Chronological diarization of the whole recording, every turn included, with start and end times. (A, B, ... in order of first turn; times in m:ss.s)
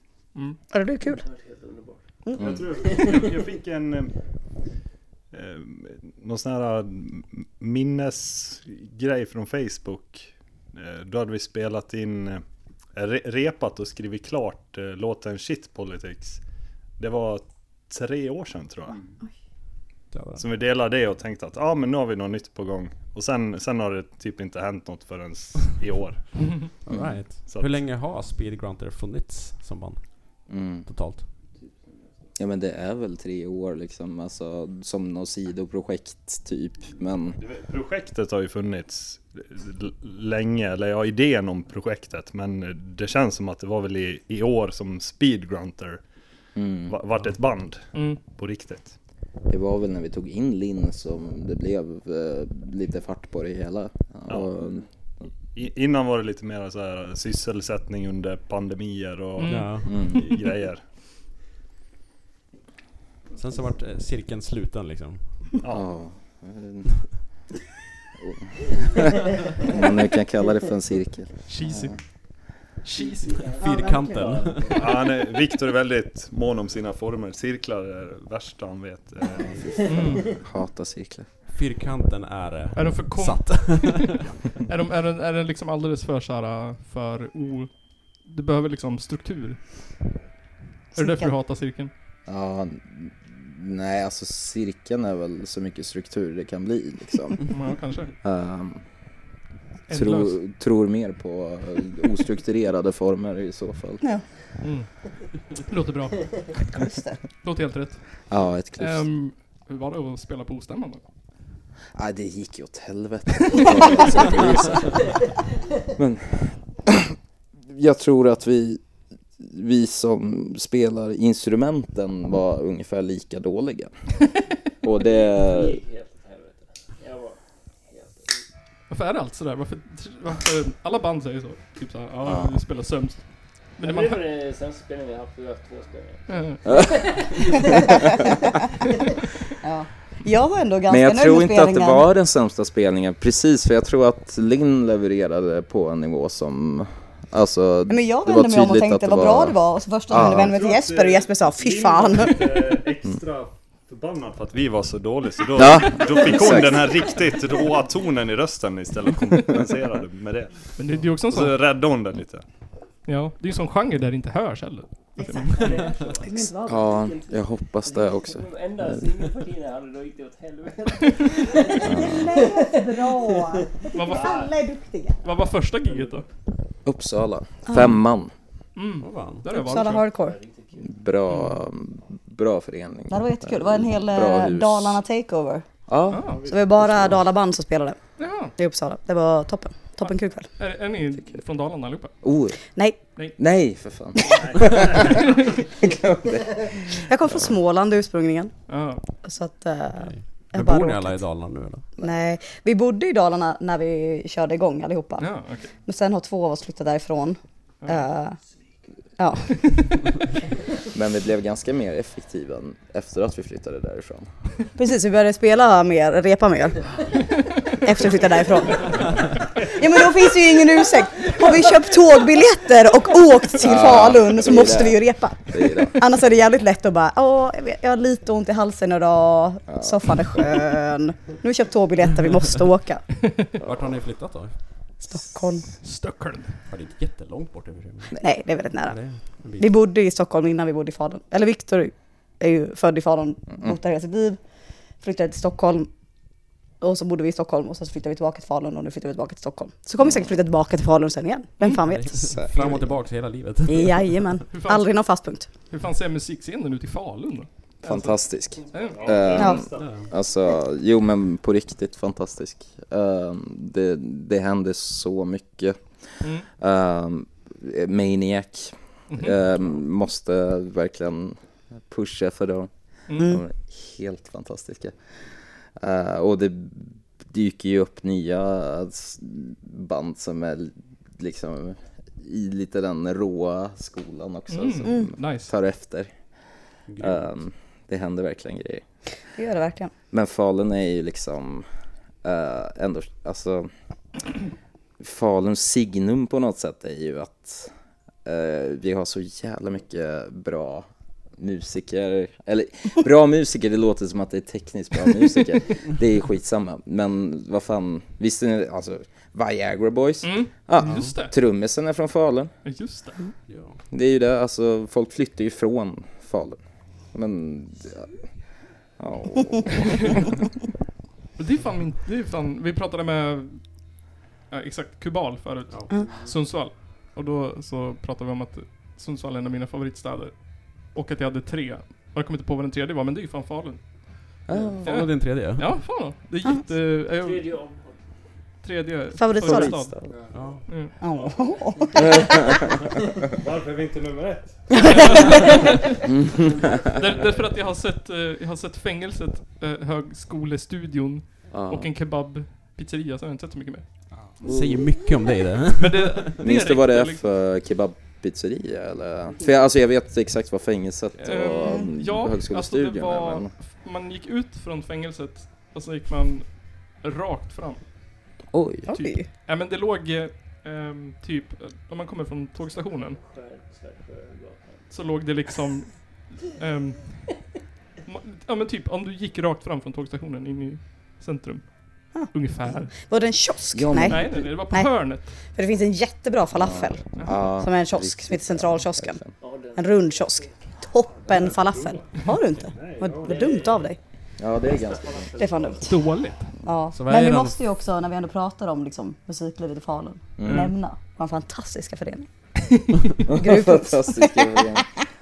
0:00.7-0:01.2 A
0:01.0-0:02.1 B
0:02.4-0:04.1 C
0:02.8-0:03.6 B
0:05.3-0:12.4 C
0:12.9-0:16.4 C
0:17.0-0:19.0 C
0:20.1-0:20.4 D
0:20.4-0:26.3 C
0:26.8-0:31.2 D
0:26.9-0:27.2 E
0:27.4-0:27.8 C
0:30.5-0:30.8 E
0:31.6-0:32.3 B
0:32.4-0:37.4 E
0:37.4-0:46.0 C
0:46.6-0:46.9 E
0:46.9-0:48.9 C
0:47.9-0:48.2 F
0:49.5-0:54.8 E
0:54.3-0:54.5 C
0:55.5-1:00.8 C
0:59.4-0:59.9 F
0:59.4-1:00.2 D
0:59.9-1:00.2 E
1:03.4-1:05.5 D
1:05.6-1:05.9 C
1:05.7-1:06.9 E
1:08.2-1:09.1 E
1:09.6-1:11.9 E
1:11.5-1:12.0 F
1:12.8-1:13.5 F
1:13.0-1:15.2 B
1:13.5-1:14.9 D
1:13.6-1:14.0 A
1:14.7-1:19.6 C
1:19.4-1:20.4 B
1:19.8-1:20.2 F
1:20.3-1:21.2 E
1:21.5-1:24.3 D
1:22.7-1:29.8 F
1:30.9-1:31.3 A
1:30.9-1:31.9 F
1:32.3-1:37.4 E
1:37.5-1:38.1 F
1:38.2-1:38.8 E
1:39.9-1:40.4 F
1:39.9-1:44.0 E
1:44.6-1:44.9 F
1:45.5-1:46.5 F
1:46.7-1:47.2 A
1:47.4-1:48.0 F
1:48.3-1:49.0 E
1:48.8-1:51.0 F
1:52.0-1:55.2 E
1:55.9-1:57.1 E
1:57.7-1:58.8 E
1:59.4-2:03.9 E
2:04.8-2:05.8 E
2:04.8-2:08.4 B
2:08.9-2:13.2 F
2:12.2-2:12.5 E
2:13.8-2:14.3 F
2:13.8-2:18.2 B
2:16.3-2:16.6 F
2:16.6-2:17.4 E
2:19.6-2:22.0 A
2:20.9-2:29.6 E
2:27.9-2:32.4 A
2:30.1-2:30.5 E
2:30.1-2:42.4 C
2:35.6-2:37.0 E
2:40.8-2:41.6 F
2:43.0-2:46.0 F
2:45.2-2:46.9 A
2:45.5-2:54.6 B
2:46.7-2:48.8 E
2:51.7-2:55.2 A
2:51.8-2:52.2 E
2:53.9-2:54.4 F
2:55.2-2:56.2 F
2:55.8-2:56.2 B
2:56.8-2:58.3 E
2:57.7-2:58.0 A
2:58.8-3:00.0 F
2:59.0-2:59.5 D
2:59.5-3:00.4 A
2:59.7-3:00.9 B
3:00.8-3:05.0 E
3:01.3-3:01.6 F
3:03.1-3:05.6 A
3:05.9-3:07.1 E
3:06.1-3:06.4 F
3:06.5-3:08.0 A
3:08.2-3:08.5 F
3:08.5-3:10.5 A
3:10.6-3:12.1 F
3:12.2-3:12.6 E
3:13.4-3:15.1 E
3:14.3-3:15.1 C
3:15.0-3:15.5 F
3:15.8-3:17.5 E
3:16.9-3:18.5 A
3:18.7-3:19.0 F
3:19.2-3:21.2 A
3:20.0-3:21.8 D
3:22.0-3:25.3 A
3:25.2-3:25.7 F
3:25.8-3:28.4 A
3:29.2-3:29.7 A
3:30.9-3:34.3 E
3:34.8-3:36.9 A
3:37.7-3:39.0 A
3:39.7-3:53.0 A
3:43.6-3:46.0 E
3:49.7-3:50.5 E
3:53.6-3:54.0 E
3:53.6-3:54.5 D
3:55.0-3:55.6 A
3:55.8-3:56.6 F
3:56.6-3:58.2 D
3:58.2-3:59.0 A
3:58.8-3:59.7 D
3:59.6-4:04.4 A
4:05.0-4:05.9 A
4:06.8-4:12.4 A
4:11.8-4:14.3 D
4:12.3-4:13.0 E
4:13.7-4:15.5 A
4:14.5-4:14.9 F
4:15.7-4:17.5 F
4:17.8-4:25.8 E
4:17.9-4:19.4 B
4:18.9-4:20.0 C
4:19.3-4:19.6 A
4:19.8-4:20.1 D
4:26.2-4:26.5 F
4:26.6-4:31.4 E
4:29.1-4:29.7 F
4:31.9-4:34.9 E
4:33.1-4:33.4 F
4:33.2-4:33.4 A
4:35.8-4:46.1 E
4:44.5-4:45.5 F
4:46.9-4:47.4 D
4:47.0-4:48.8 E
4:49.4-4:49.9 A
4:50.1-4:51.6 E
4:52.2-4:53.7 E
4:55.0-4:57.7 E
4:58.2-5:12.5 E
5:10.2-5:11.3 F
5:10.8-5:11.1 D
5:12.6-5:13.2 F
5:13.5-5:13.8 D
5:13.9-5:16.6 E
5:17.1-5:18.1 E
5:19.0-5:20.3 E
5:19.8-5:20.1 F
5:21.4-5:24.0 F
5:24.5-5:37.6 F
5:25.9-5:26.3 B
5:34.5-5:34.8 E
5:34.8-5:35.7 D
5:37.1-5:38.0 B
5:38.6-5:39.9 F
5:39.2-5:39.8 A
5:39.4-5:40.1 E
5:40.1-5:40.6 B
5:40.3-5:40.6 D
5:40.7-5:40.9 F
5:41.0-5:42.2 A
5:41.2-5:42.8 B
5:42.0-5:42.5 E
5:43.4-5:45.2 C
5:44.8-5:45.8 F
5:44.9-5:45.4 A
5:46.1-5:46.6 E
5:46.3-5:47.5 B
5:46.9-5:53.9 F
5:51.5-5:51.9 E
5:54.4-5:54.8 E
5:54.4-5:56.3 D
5:55.8-5:57.2 F
5:56.4-6:03.5 E
6:01.2-6:07.8 F
6:08.5-6:08.9 E
6:08.9-6:09.3 A
6:08.9-6:13.2 F
6:13.2-6:14.9 B
6:14.9-6:17.4 F
6:18.1-6:22.9 F
6:22.1-6:25.0 A
6:23.7-6:24.4 E
6:24.0-6:25.3 F
6:25.5-6:29.2 A
6:26.5-6:29.3 E
6:27.2-6:27.4 F
6:29.4-6:31.6 B
6:29.7-6:34.0 A
6:31.3-6:32.0 C
6:32.7-6:33.5 C
6:33.2-6:34.0 B
6:34.4-6:35.3 E
6:34.5-6:36.1 B
6:35.4-6:35.9 A
6:35.8-6:36.5 F
6:36.6-6:42.3 A
6:36.9-6:37.6 D
6:40.4-6:40.7 E
6:40.4-6:40.7 F
6:43.3-6:44.9 E
6:43.3-6:45.0 A